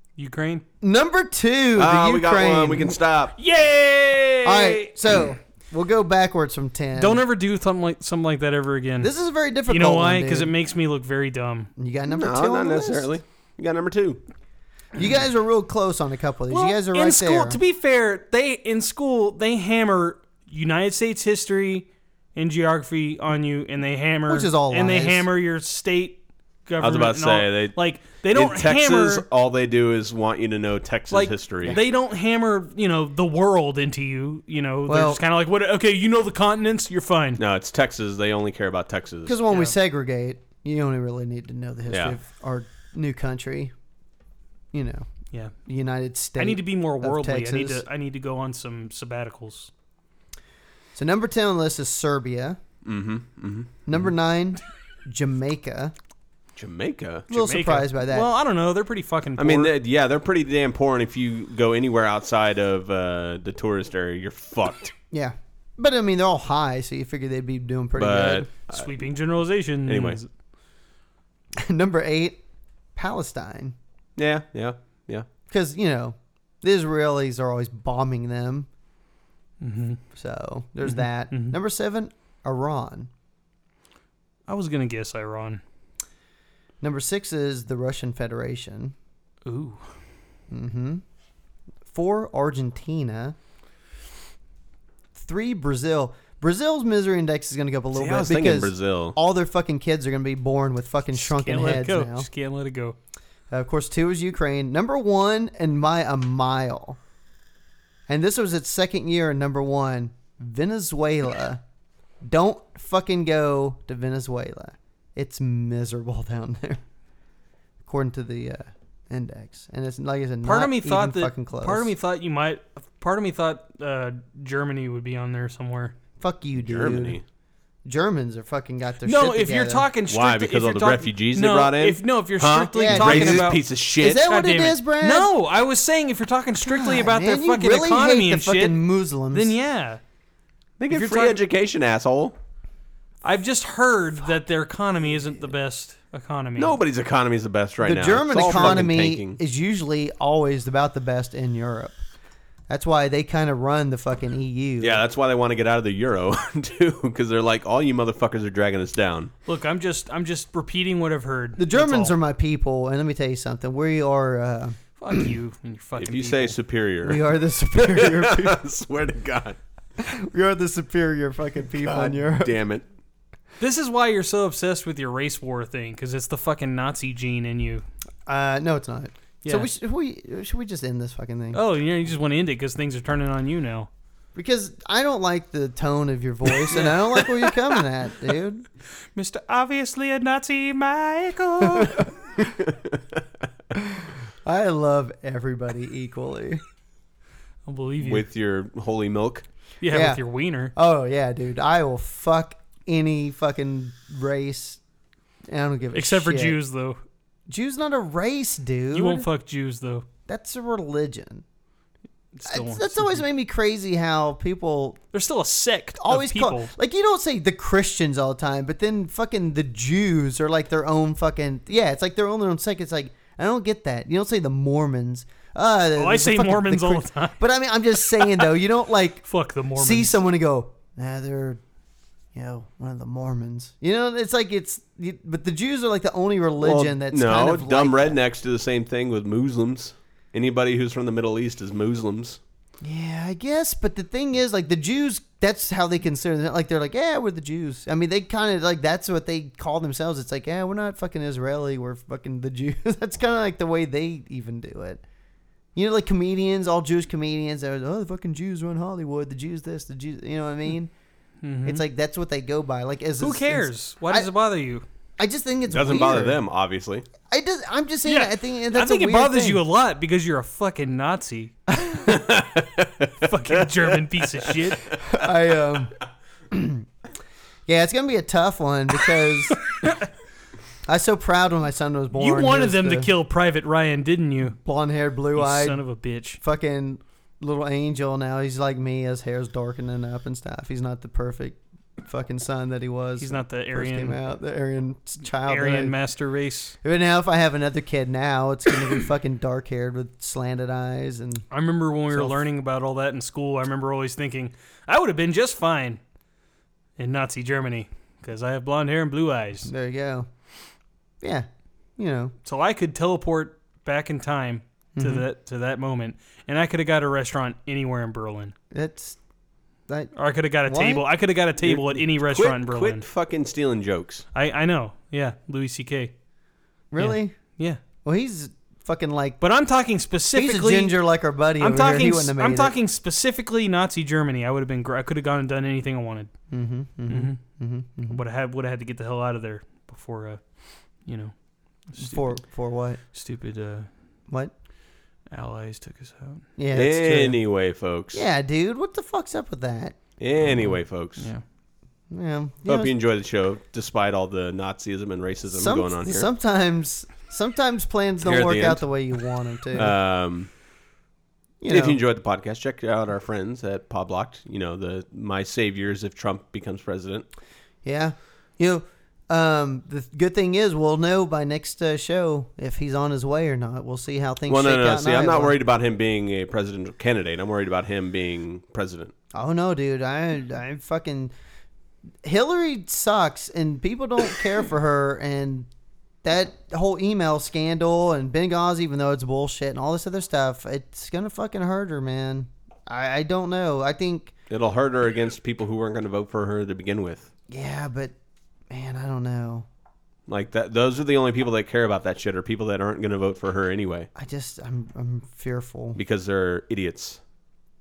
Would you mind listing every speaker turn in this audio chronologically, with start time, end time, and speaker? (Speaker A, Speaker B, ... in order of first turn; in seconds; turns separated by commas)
Speaker A: 0.2-0.7, Speaker B: 0.8-3.0, Speaker C: 1.8-3.4, Speaker A: 3.4-5.0, Speaker B: 4.4-7.2, Speaker A: 7.0-9.1, Speaker B: 9.0-10.5, Speaker A: 9.7-11.7, Speaker B: 11.8-13.1, Speaker C: 12.1-14.2, Speaker B: 15.0-17.6, Speaker A: 16.5-29.3, Speaker B: 24.3-25.3, Speaker C: 26.8-31.8, Speaker A: 31.1-37.4, Speaker B: 34.9-35.2, Speaker C: 37.4-39.4, Speaker B: 39.3-43.7, Speaker A: 39.5-39.8, Speaker C: 41.9-42.2, Speaker B: 44.7-45.1, Speaker B: 45.7-47.9, Speaker A: 46.4-49.7, Speaker B: 51.0-52.6, Speaker C: 52.8-54.0, Speaker B: 53.9-55.9, Speaker C: 56.6-57.3, Speaker B: 57.3-58.3, Speaker A: 57.3-59.7, Speaker C: 59.4-64.9, Speaker B: 65.1-68.5, Speaker C: 68.0-68.9, Speaker A: 68.7-70.3, Speaker C: 69.9-70.2, Speaker B: 71.6-72.4, Speaker B: 73.0-73.8, Speaker C: 74.2-75.3, Speaker B: 75.5-78.7, Speaker A: 79.6-80.0, Speaker B: 80.1-83.1, Speaker A: 80.8-81.6, Speaker A: 84.5-85.6, Speaker B: 86.8-89.0, Speaker A: 89.5-89.8, Speaker B: 90.5-91.0, Speaker B: 91.9-93.4, Speaker B: 95.2-102.3, Speaker C: 97.9-99.2, Speaker A: 101.1-103.0, Speaker B: 103.5-107.0, Speaker B: 108.1-111.6, Speaker B: 112.2-116.8, Speaker B: 117.8-121.9, Speaker A: 120.4-126.0, Speaker B: 126.2-127.2, Speaker C: 126.6-127.2, Speaker B: 127.8-129.9, Speaker A: 129.1-140.0, Speaker C: 130.1-134.3, Speaker B: 132.8-135.3, Speaker B: 136.6-139.6, Speaker C: 140.8-142.4, Speaker A: 140.9-141.4, Speaker A: 143.2-146.8, Speaker C: 146.6-149.4, Speaker B: 147.8-152.0, Speaker A: 148.4-148.8, Speaker B: 152.7-155.0, Speaker C: 154.8-159.3, Speaker A: 159.5-162.2, Speaker B: 161.6-164.8, Speaker A: 165.0-166.6, Speaker C: 166.0-167.2, Speaker B: 167.0-168.6, Speaker C: 167.8-169.6, Speaker B: 170.0-172.6, Speaker C: 171.8-172.8, Speaker A: 173.6-177.8, Speaker B: 178.3-181.6, Speaker A: 181.5-183.9, Speaker B: 184.3-188.7, Speaker A: 186.7-187.3, Speaker A: 189.2-192.1, Speaker B: 191.7-192.5, Speaker B: 193.8-196.6, Speaker A: 197.7-198.3, Speaker C: 198.0-199.4, Speaker A: 199.8-200.7, Speaker B: 199.9-200.2, Speaker B: 200.7-204.8, Speaker B: 205.5-206.6, Speaker A: 205.9-207.0, Speaker B: 207.5-209.3, Speaker A: 208.9-210.1, Speaker B: 210.3-211.4, Speaker A: 212.3-213.2, Speaker B: 212.5-215.0, Speaker A: 215.1-216.7, Speaker B: 216.0-229.2, Speaker A: 226.0-227.4, Speaker A: 229.2-230.2, Speaker B: 229.8-231.6, Speaker B: 232.3-238.1, Speaker C: 236.6-242.4, Speaker B: 242.8-255.0, Speaker B: 255.8-260.9, Speaker A: 261.4-261.9, Speaker B: 261.6-264.3, Speaker A: 263.2-264.9, Speaker B: 265.2-266.4, Speaker C: 265.7-267.1, Speaker B: 267.2-269.6, Speaker A: 268.1-271.6, Speaker B: 271.7-272.2, Speaker C: 272.1-273.9, Speaker A: 273.2-274.8, Speaker B: 275.0-275.9, Speaker B: 276.5-276.9, Speaker B: 277.7-279.6, Speaker B: 280.9-283.1, Speaker A: 282.1-284.6, Speaker B: 284.6-285.8, Speaker A: 285.3-286.4, Speaker B: 286.4-296.0, Speaker A: 293.2-294.2, Speaker A: 295.5-296.8, Speaker B: 296.8-301.5, Speaker A: 301.5-306.0, Speaker B: 302.1-302.4, Speaker A: 307.0-309.7, Speaker B: 309.7-310.3, Speaker B: 311.2-311.5, Speaker B: 312.0-312.3, Speaker A: 312.4-318.5, Speaker B: 315.0-315.3, Speaker B: 318.7-319.2, Speaker B: 319.9-320.1, Speaker A: 320.1-323.1, Speaker B: 320.7-321.1, Speaker C: 321.6-324.3, Speaker A: 324.3-326.1, Speaker B: 326.9-327.4, Speaker A: 327.0-327.8, Speaker B: 328.0-329.4, Speaker A: 329.4-331.0, Speaker B: 330.3-332.8, Speaker A: 331.6-336.3, Speaker B: 336.5-338.2, Speaker A: 337.1-337.4, Speaker A: 338.1-340.4, Speaker A: 341.0-341.3, Speaker A: 341.9-342.3, Speaker B: 342.0-343.0, Speaker A: 343.1-343.9, Speaker A: 345.3-346.4, Speaker B: 346.6-347.4, Speaker C: 346.7-348.2, Speaker B: 348.1-350.0, Speaker C: 350.2-351.3, Speaker A: 350.4-351.4, Speaker B: 352.1-353.0, Speaker C: 352.6-356.3, Speaker B: 355.5-360.0, Speaker C: 358.2-358.8, Speaker C: 359.7-360.5, Speaker B: 361.6-362.0, Speaker C: 361.7-367.3, Speaker B: 367.8-375.6, Speaker C: 374.5-379.1, Speaker B: 379.3-381.3, Speaker B: 382.2-385.7, Speaker B: 386.2-394.3, Speaker C: 394.5-397.3, Speaker B: 397.5-398.1, Speaker B: 398.7-399.7, Speaker C: 400.3-404.1, Speaker B: 404.1-406.0, Speaker C: 406.0-407.2